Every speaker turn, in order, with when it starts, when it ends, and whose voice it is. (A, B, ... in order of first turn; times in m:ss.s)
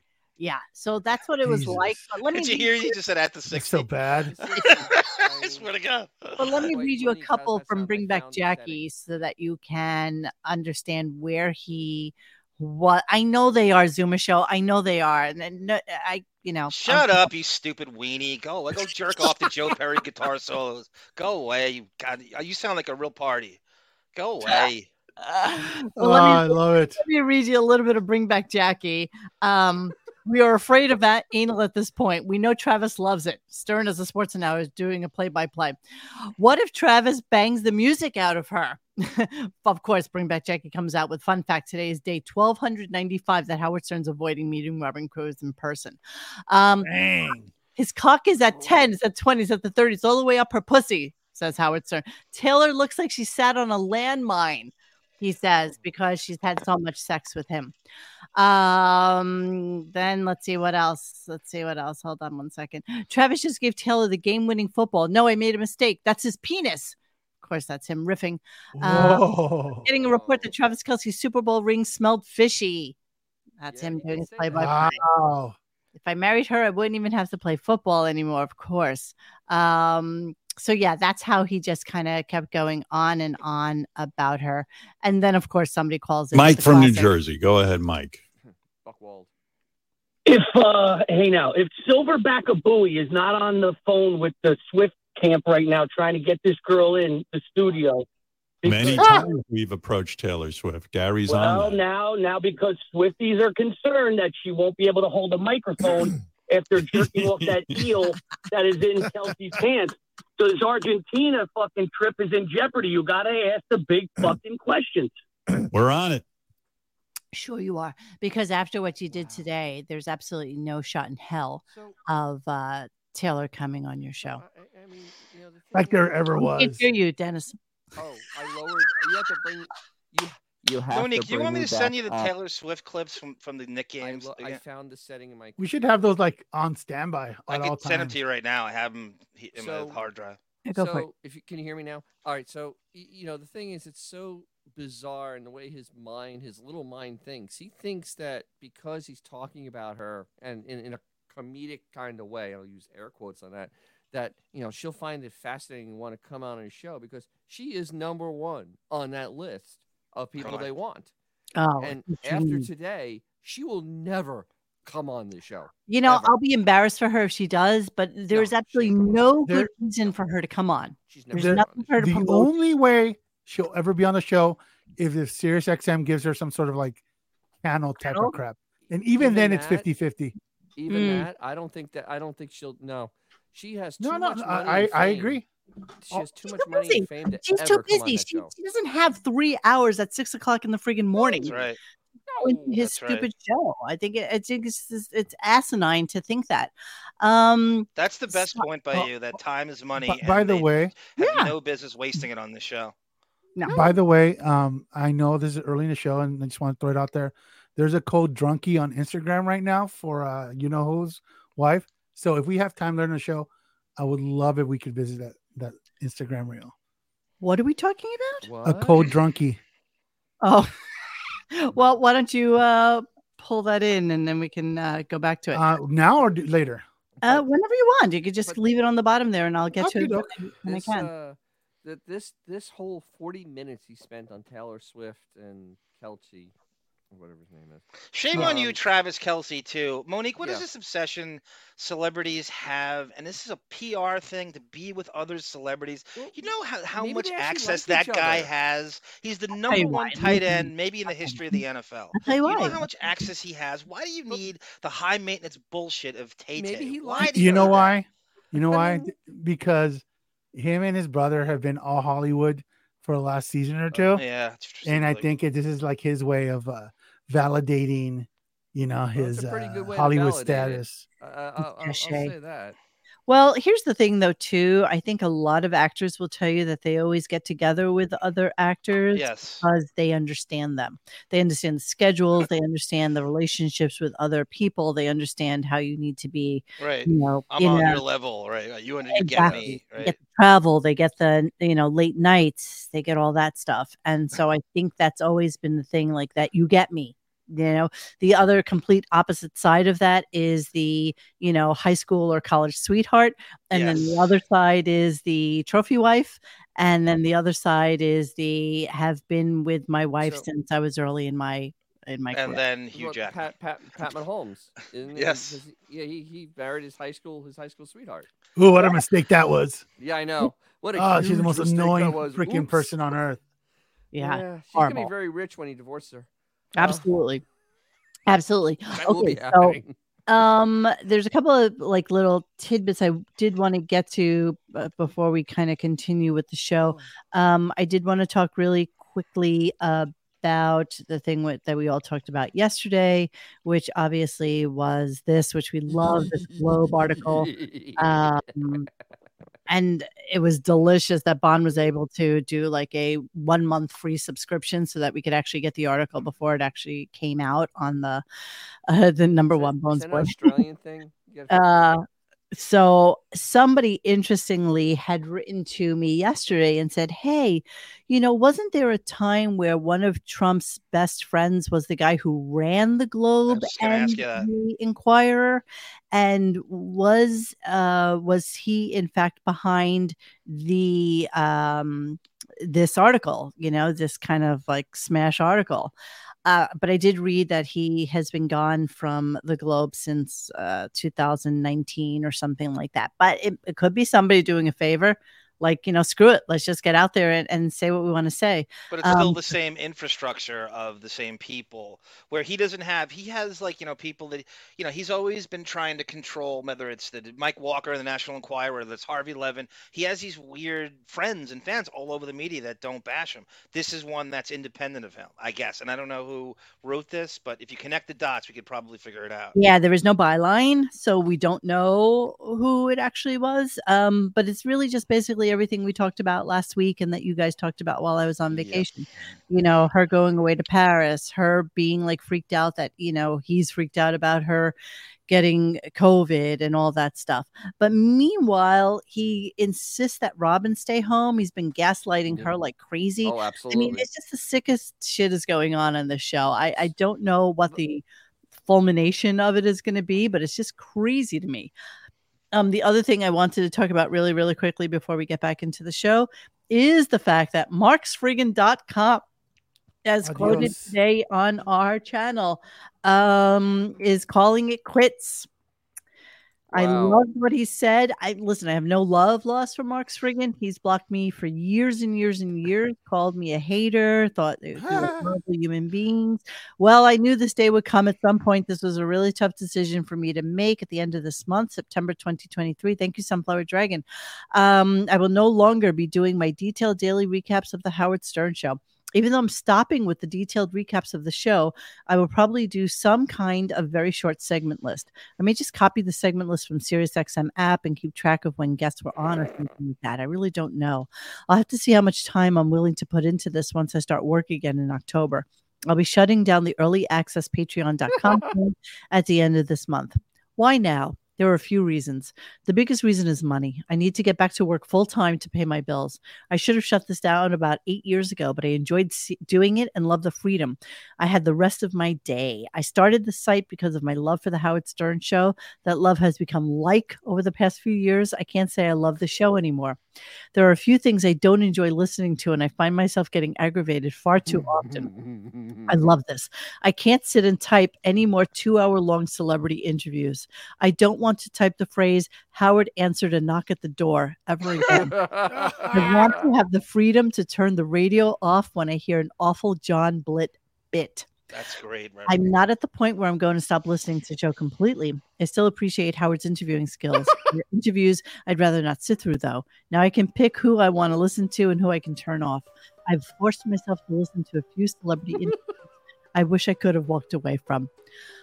0:00.4-0:02.9 A
0:01.4-0:02.0 B
0:02.3-0:03.9 C
0:03.5-0:04.3 B
0:04.2-0:05.7 D
0:04.6-0:06.4 C
0:06.4-0:17.3 A
0:06.4-0:08.8 D
0:16.7-0:23.6 C
0:24.1-0:24.9 C
0:25.2-0:35.8 A
0:26.0-0:27.0 B
0:36.4-0:46.9 A
0:46.8-0:47.5 B
0:47.8-0:57.7 A
0:58.4-1:09.3 A
1:08.8-1:09.8 B
1:09.8-1:13.0 A
1:10.0-1:10.5 D
1:13.6-1:15.0 A
1:13.7-1:14.9 D
1:14.6-1:15.5 B
1:16.0-1:27.1 A
1:26.3-1:28.2 E
1:28.4-1:29.3 D
1:30.2-1:38.0 F
1:38.6-1:39.2 F
1:38.6-1:41.8 E
1:41.2-1:55.1 F
1:47.1-1:47.5 E
1:55.7-1:56.2 E
1:57.3-2:04.4 A
1:59.1-1:59.5 D
2:01.7-2:02.0 D
2:04.2-2:06.2 D
2:05.7-2:06.8 B
2:06.4-2:07.6 A
2:08.0-2:12.3 D
2:10.9-2:14.6 C
2:14.0-2:15.6 D
2:15.6-2:18.2 B
2:17.5-2:20.4 C
2:19.6-2:20.0 D
2:20.6-2:21.1 A
2:20.7-2:41.1 D
2:40.4-2:40.7 C
2:41.6-2:42.7 A
2:41.8-2:46.3 D
2:45.9-2:52.5 A
2:48.3-2:49.1 D
2:51.1-2:51.9 D
2:51.3-2:57.0 B
2:57.6-3:00.3 B
2:58.1-2:58.3 A
2:58.8-2:59.9 D
3:00.8-3:05.4 D
3:00.9-3:01.3 A
3:04.0-3:05.4 B
3:06.0-3:08.5 D
3:06.6-3:11.5 A
3:11.3-3:11.7 D
3:11.4-3:11.8 C
3:12.3-3:12.6 D
3:12.4-3:18.6 A
3:12.7-3:13.3 C
3:18.0-3:22.9 C
3:20.0-3:21.5 B
3:23.7-3:36.7 B
3:37.4-3:38.4 A
3:38.4-3:39.1 D
3:38.6-3:39.6 B
3:40.4-3:40.7 A
3:41.5-3:45.6 A
3:45.5-3:46.8 B
3:47.2-3:51.1 A
3:49.8-3:50.3 B
3:50.6-3:56.5 D
3:57.1-3:58.8 D
3:58.1-4:18.0 C
4:00.4-4:00.6 D
4:06.2-4:08.5 D
4:09.6-4:11.6 A
4:12.1-4:12.8 A
4:16.5-4:17.8 D
4:17.3-4:24.2 B
4:18.6-4:19.1 D
4:23.9-4:24.2 D
4:24.1-4:25.3 C
4:24.8-4:31.0 B
4:29.2-4:32.8 D
4:31.6-4:32.3 A
4:33.3-4:48.0 A
4:39.1-4:39.6 C
4:46.8-4:50.2 C
4:49.1-5:12.6 A
5:03.7-5:04.2 C
5:10.2-5:10.4 D
5:12.3-5:13.4 C
5:12.9-5:18.3 D
5:15.1-5:15.6 C
5:18.6-5:19.8 B
5:20.0-5:22.9 D
5:20.9-5:23.4 B
5:24.1-5:25.1 A
5:24.2-5:27.0 D
5:26.8-5:27.4 A
5:28.3-5:48.9 A
5:29.0-5:29.9 D
5:46.0-5:48.9 D
5:49.7-5:58.2 A
5:58.9-6:00.6 A
5:59.5-6:01.9 D
6:01.5-6:25.9 A
6:13.5-6:14.5 C
6:26.4-6:39.5 A
6:38.9-6:59.5 C
6:59.5-7:14.7 A
7:08.5-7:08.8 D
7:15.3-7:28.0 A
7:22.3-7:22.5 D
7:23.2-7:24.0 D
7:28.6-7:31.7 A
7:32.5-7:39.2 A
7:40.0-7:45.5 A
7:40.2-7:40.9 B
7:40.4-7:40.7 D
7:46.7-7:47.2 D
7:46.7-8:50.0 A
7:54.8-7:55.3 B
8:50.5-8:55.1 A
8:54.4-8:56.0 D
8:55.9-9:05.2 A
9:04.8-9:06.4 D
9:05.5-9:06.0 B
9:05.8-9:11.3 A
9:11.5-9:12.4 C
9:12.3-9:25.6 A
9:26.3-9:27.9 A